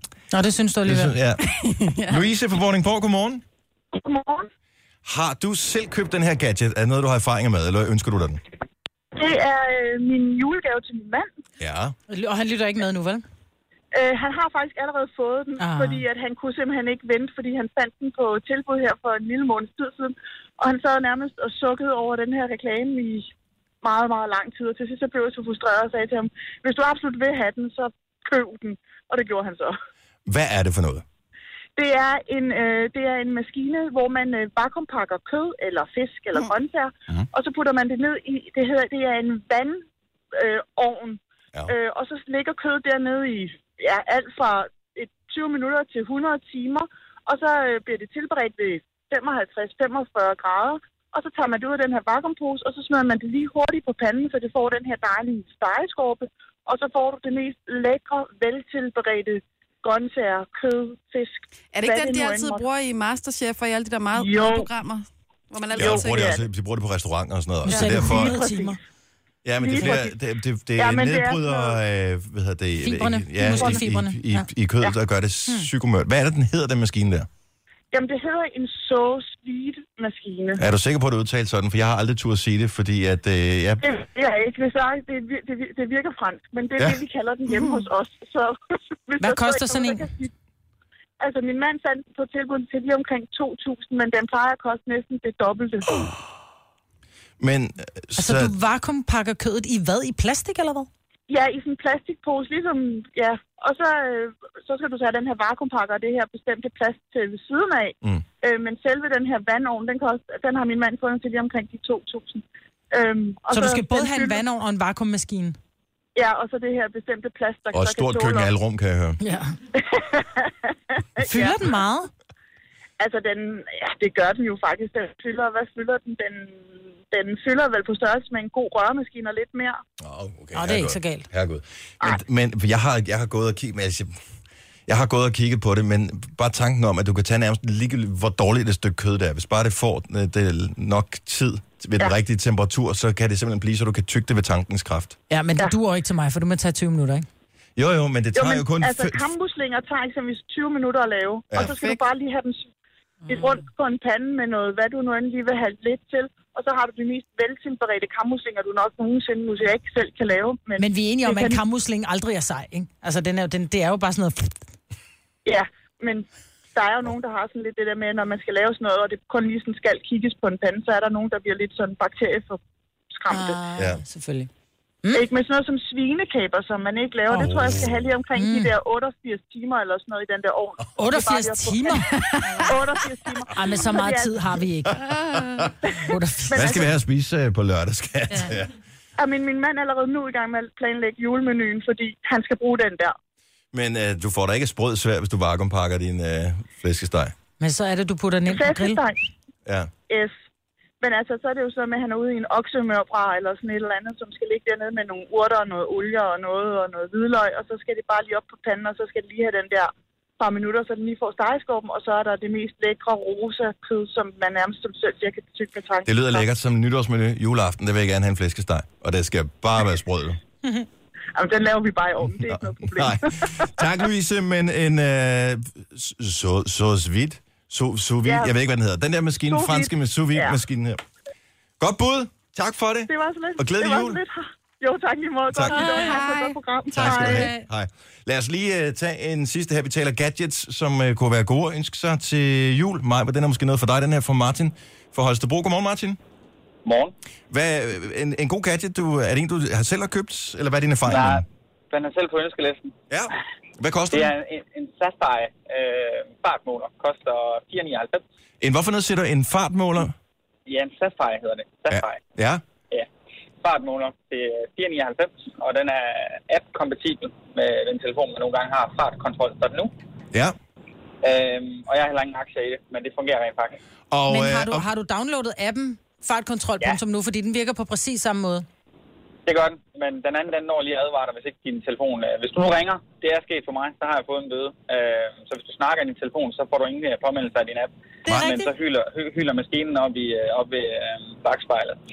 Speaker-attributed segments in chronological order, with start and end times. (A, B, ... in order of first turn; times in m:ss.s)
0:00.3-0:01.2 A
0:00.9-0:01.4 B
0:01.4-0:02.3 C
0:02.1-0:03.4 B
0:03.9-0:04.5 D
0:05.0-0:08.4 B
0:09.1-0:11.3 D
0:11.6-0:12.0 B
0:12.1-0:13.2 A
0:13.9-0:23.3 D
0:15.6-0:16.0 A
0:23.8-0:29.8 D
0:30.3-0:31.0 B
0:31.8-1:02.6 D
1:01.7-1:06.3 C
1:04.2-1:04.7 D
1:05.7-1:06.4 D
1:05.8-1:08.4 B
1:07.7-1:08.8 A
1:07.7-1:08.8 D
1:09.4-1:17.3 B
1:09.6-1:10.1 D
1:10.8-1:11.8 D
1:12.8-1:14.5 A
1:17.9-1:20.6 D
1:20.6-1:23.8 B
1:23.8-1:30.3 D
1:27.5-1:27.8 C
1:29.2-1:30.1 A
1:31.2-1:36.1 D
1:37.4-1:38.5 B
1:38.2-1:40.9 A
1:41.3-1:54.4 D
1:53.5-1:55.6 A
1:56.2-1:58.5 D
1:57.7-1:59.2 B
1:59.2-1:59.6 A
1:59.8-2:00.5 D
2:01.2-2:01.7 D
2:01.2-2:02.1 A
2:03.0-2:09.8 D
2:10.0-2:14.1 B
2:10.5-2:11.3 A
2:14.9-2:25.2 B
2:25.3-2:27.3 A
2:27.8-2:29.3 B
2:28.3-2:32.7 D
2:31.6-2:32.0 C
2:33.3-2:41.6 D
2:40.8-2:44.6 A
2:45.5-2:52.6 D
2:53.2-2:53.6 D
2:53.3-2:54.5 A
2:53.8-2:54.0 B
2:55.1-3:04.4 D
2:57.3-2:57.8 A
2:57.3-2:58.1 B
2:58.3-2:58.7 A
3:01.0-3:02.2 A
3:03.5-3:05.1 A
3:05.1-3:05.7 C
3:05.3-3:05.7 B
3:05.8-3:06.9 D
3:06.1-3:06.8 A
3:06.5-3:08.7 B
3:09.2-3:13.2 D
3:13.7-3:17.3 B
3:17.6-3:19.0 A
3:18.5-3:19.2 D
3:20.1-3:20.4 D
3:21.0-3:36.5 D
3:36.1-3:40.4 B
3:41.4-3:43.9 D
3:42.2-3:51.0 B
3:48.2-3:48.5 D
3:49.5-3:50.6 D
3:51.8-3:54.2 B
3:53.1-3:57.6 D
3:55.5-3:55.8 B
3:55.8-3:56.6 C
3:56.9-4:06.2 B
4:06.8-4:07.1 E
4:07.5-4:11.4 B
4:11.1-4:13.0 E
4:13.1-4:14.3 B
4:14.1-4:18.2 E
4:18.6-4:20.1 B
4:20.7-4:22.2 E
4:21.9-4:22.6 B
4:23.6-4:29.9 E
4:31.2-4:33.8 E
4:34.1-4:34.9 B
4:34.3-4:38.7 A
4:39.5-4:52.0 E
4:48.3-4:48.7 A